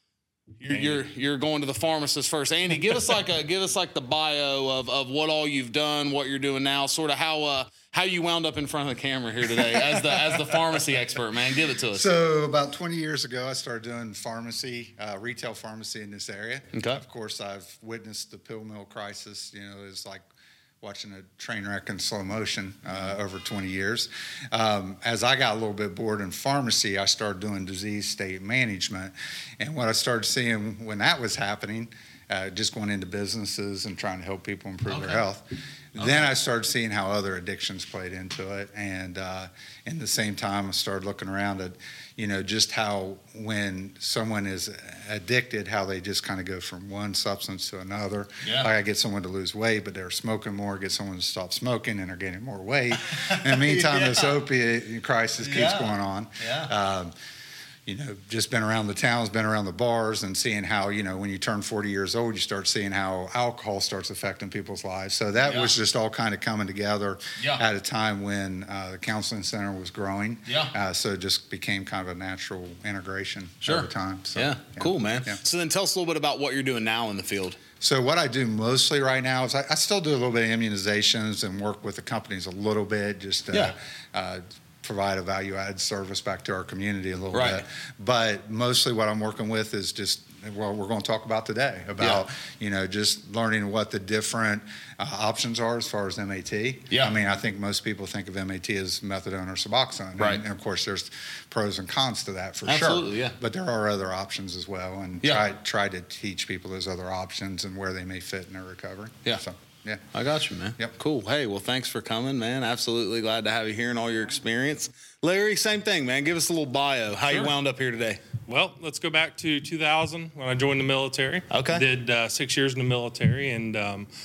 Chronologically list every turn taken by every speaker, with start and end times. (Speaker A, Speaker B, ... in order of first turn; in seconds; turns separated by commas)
Speaker A: 0.6-12.1, Speaker B: 0.7-1.0, Speaker C: 9.6-10.7, Speaker C: 11.9-20.2, Speaker A: 16.7-17.0, Speaker C: 20.8-35.4, Speaker A: 34.9-35.2, Speaker C: 35.9-57.1, Speaker A: 36.0-36.3, Speaker A: 48.4-48.7, Speaker A: 53.0-54.4, Speaker A: 55.4-56.7, Speaker C: 57.9-75.4, Speaker A: 65.4-65.7, Speaker A: 67.4-67.6, Speaker A: 70.5-70.7, Speaker A: 73.7-77.6, Speaker C: 77.8-110.1, Speaker A: 87.3-87.6, Speaker A: 102.7-103.4, Speaker A: 110.1-118.2, Speaker B: 117.3-117.5, Speaker B: 118.5-124.1, Speaker A: 121.5-121.8